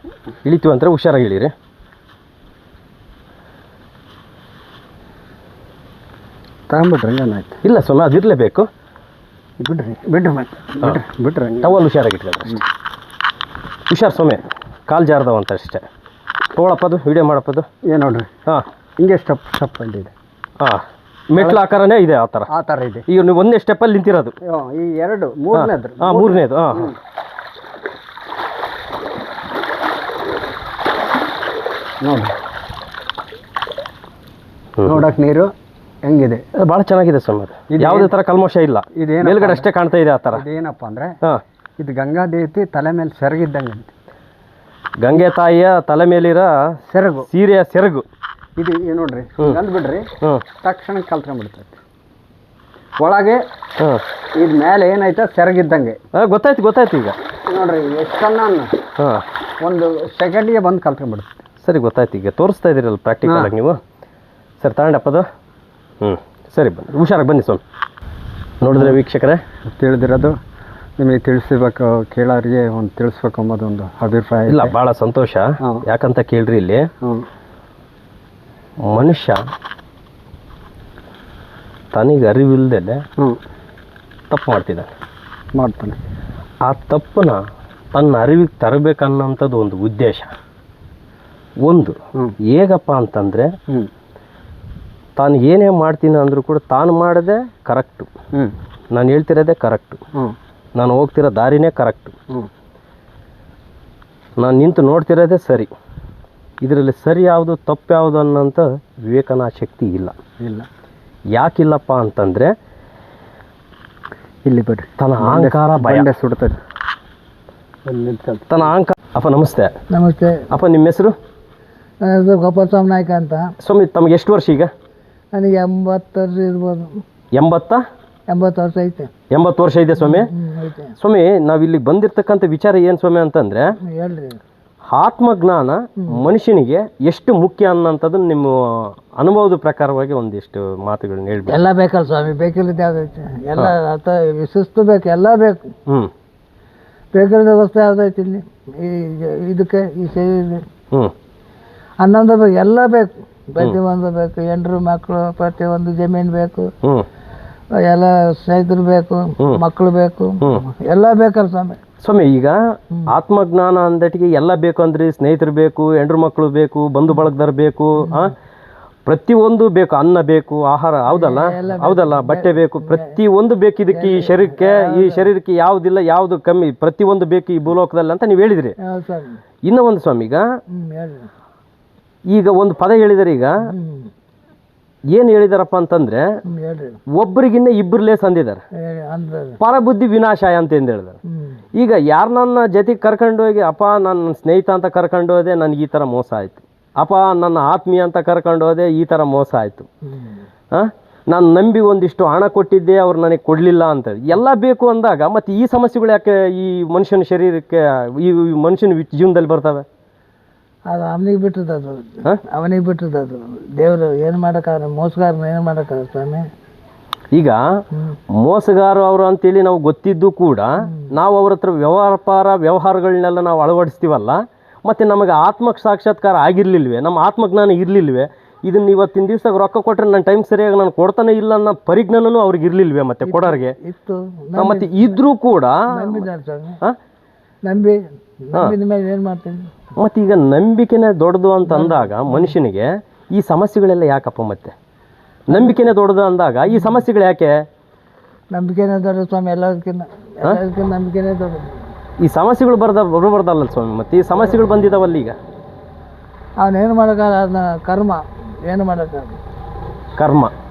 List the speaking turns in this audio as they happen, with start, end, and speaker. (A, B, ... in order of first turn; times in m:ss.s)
0:00.4-0:01.5 A
0:06.7-0:07.6 B
0:07.6-0:08.7 A
0:09.6-0:11.8 B
0:11.6-0:12.6 A
0:13.9-0:15.8 A
0:16.5-0:17.7 A
0:17.9-0:18.3 B
0:19.0-0:20.1 B
0:20.6-0:22.5 A
0:22.5-0:23.0 B
0:23.1-0:24.3 A
0:24.4-0:26.9 B
0:25.5-0:26.9 A
0:32.0-0:32.3 B
0:34.8-0:35.0 A
0:34.8-0:35.5 B
0:36.0-0:36.4 B
0:36.6-0:40.4 A
0:37.7-0:38.1 B
0:38.9-0:39.7 B
0:40.3-0:41.1 B
0:41.8-0:43.9 B
0:45.0-0:46.8 A
0:46.9-0:47.3 B
0:47.3-0:48.0 A
0:48.6-0:50.1 B
0:50.6-0:51.8 B
0:53.0-0:53.4 B
0:53.8-0:54.0 A
0:54.3-0:56.0 B
0:56.1-0:57.2 A
0:57.5-0:58.8 B
0:59.0-0:59.3 A
0:59.6-1:01.4 B
1:01.6-1:03.8 A
1:03.2-1:03.5 B
1:04.6-1:05.3 A
1:06.0-1:07.6 A
1:08.6-1:09.4 A
1:08.7-1:09.0 B
1:09.8-1:10.3 B
1:11.0-1:14.7 B
1:14.5-1:16.9 A
1:18.8-1:19.4 A
1:21.9-1:23.0 A
1:24.3-1:24.9 A
1:25.5-1:26.0 B
1:26.6-1:27.4 A
1:27.9-1:30.3 A
1:31.6-1:33.5 A
1:35.2-1:38.1 A
1:38.9-1:40.0 A
1:40.8-1:42.1 A
1:44.4-1:45.7 A
1:46.6-1:50.2 A
1:50.4-1:50.7 B
1:51.4-1:52.5 A
1:54.4-1:56.6 B
1:55.0-1:56.1 A
1:57.8-1:58.7 B
1:58.5-1:59.7 A
1:59.9-2:00.5 C
2:00.5-2:01.2 A
2:02.0-2:03.5 C
2:03.6-2:04.7 A
2:05.3-2:07.0 C
2:07.3-2:07.8 A
2:08.3-2:09.1 C
2:09.3-2:10.3 A
2:10.0-2:11.0 C
2:11.0-2:13.7 A
2:13.8-2:14.4 C
2:14.9-2:21.7 A
2:21.5-2:25.7 C
2:27.1-2:30.6 C
2:32.0-2:36.7 C
2:37.8-2:41.8 C
2:39.4-2:39.7 A
2:40.4-2:40.7 A
2:42.0-2:48.3 A
2:49.0-2:58.8 A
2:51.1-2:53.2 C
2:53.9-2:55.3 C
2:58.8-2:59.4 C
2:59.6-3:00.4 A
3:00.7-3:01.3 C
3:02.3-3:03.8 A
3:03.8-3:04.1 C
3:05.1-3:06.2 A
3:06.5-3:07.0 C
3:07.1-3:08.6 A
3:08.8-3:09.6 C
3:09.6-3:11.2 A
3:11.3-3:11.6 C
3:11.7-3:19.9 A
3:20.7-3:29.8 A
3:30.9-3:36.5 C
3:38.3-3:53.9 A
3:53.2-3:55.0 C
3:54.6-3:56.3 A
3:55.9-3:56.8 C
3:57.6-3:59.7 C
3:59.9-4:04.7 A
4:01.8-4:02.3 C
4:05.5-4:07.5 A
4:08.5-4:11.8 C
4:12.2-4:15.4 A
4:16.6-4:19.4 C
4:20.2-4:20.5 A